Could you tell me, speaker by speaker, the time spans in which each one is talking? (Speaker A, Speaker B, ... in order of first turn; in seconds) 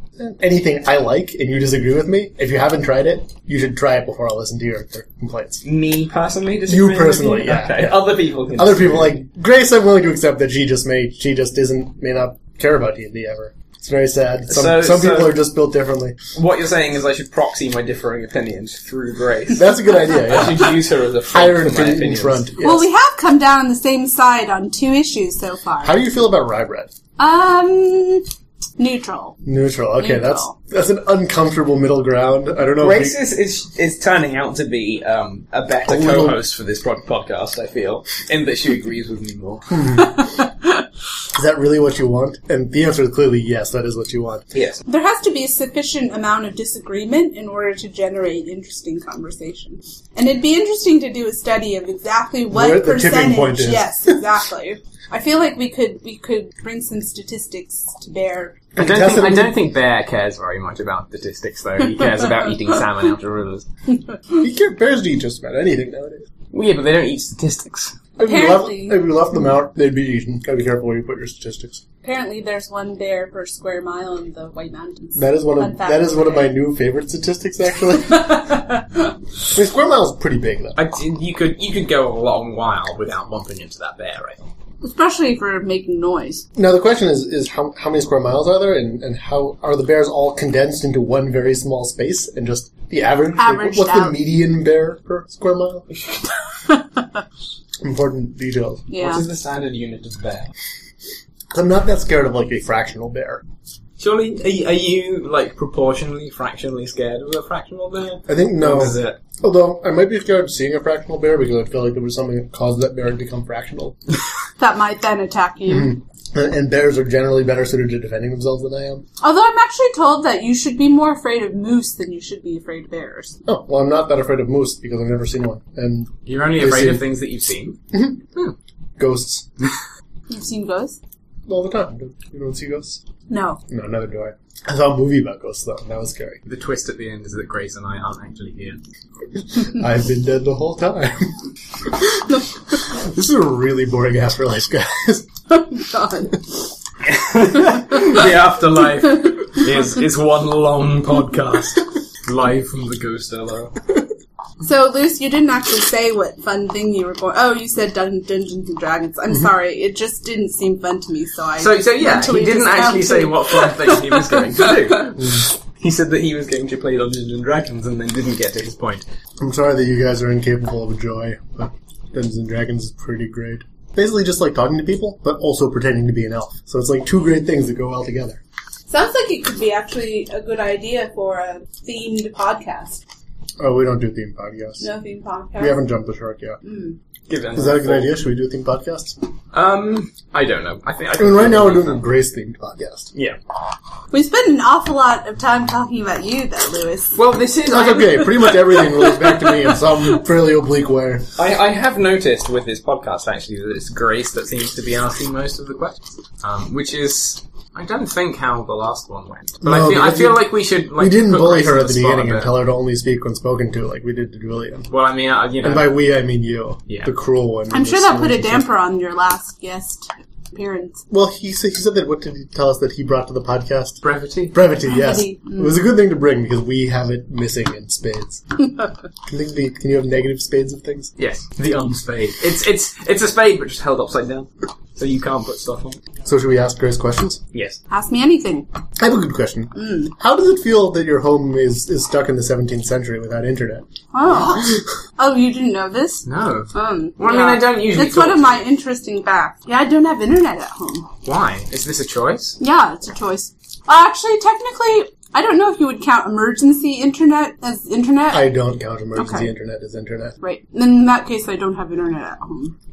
Speaker A: 0.2-5.6, 6.7-16.1, 19.5-22.9, 25.8-26.9, 29.4-33.2, 35.9-36.4, 39.7-40.2, 41.3-44.5, 52.5-54.2, 58.8-59.5, 64.4-66.3, 68.2-71.8, 75.2-78.6, 79.5-80.8, 86.6-95.9, 97.8-98.9, 101.5-103.4, 108.3-114.0, 115.7-119.0, 123.5-127.0, 127.9-128.2, 129.0-129.7, 131.5-133.0, 133.7-136.4, 139.5-141.3, 141.8-145.3, 169.4-178.4, 183.6-184.9, 185.6-186.6, 187.6-189.2, 191.2-193.1, 197.7-201.3, 209.6-214.9, 215.6-218.7, 221.1-228.4, 229.3-231.1, 236.2-237.4, 239.0-243.9, 244.5-244.8, 258.3-260.4
Speaker B: 5.6-9.2, 14.5-15.4, 16.4-22.5, 32.8-39.9, 44.5-44.8, 58.8-63.7, 66.5-68.0, 80.8-84.4, 99.0-100.5, 104.0-109.2, 126.2-127.8, 136.5-138.8, 147.0-153.8, 161.6-169.1, 187.3-188.1, 189.5-192.0, 197.2-198.5, 201.4-212.6, 214.9-215.9, 224.0-224.6, 231.2-236.0, 237.5-237.8, 246.2-248.6, 251.2-252.6
Speaker C: 22.6-26.0, 27.2-28.2, 28.8-29.4, 30.0-30.6, 40.0-40.8, 44.9-58.6, 62.0-62.4, 68.2-69.0, 72.0-76.5, 78.0-79.0, 84.8-86.5, 93.4-94.2, 96.6-97.2, 98.9-99.2, 114.6-116.0, 119.2-123.4, 130.3-131.0, 133.3-133.6, 145.5-146.5, 154.6-165.0, 178.9-183.0, 184.8-185.8, 186.6-187.0, 194.1-197.2, 198.5-200.2, 217.7-221.0, 224.8-225.8, 237.9-238.7, 239.8-240.1, 244.1-251.1, 252.6-258.5, 259.1-259.5, 260.4-262.8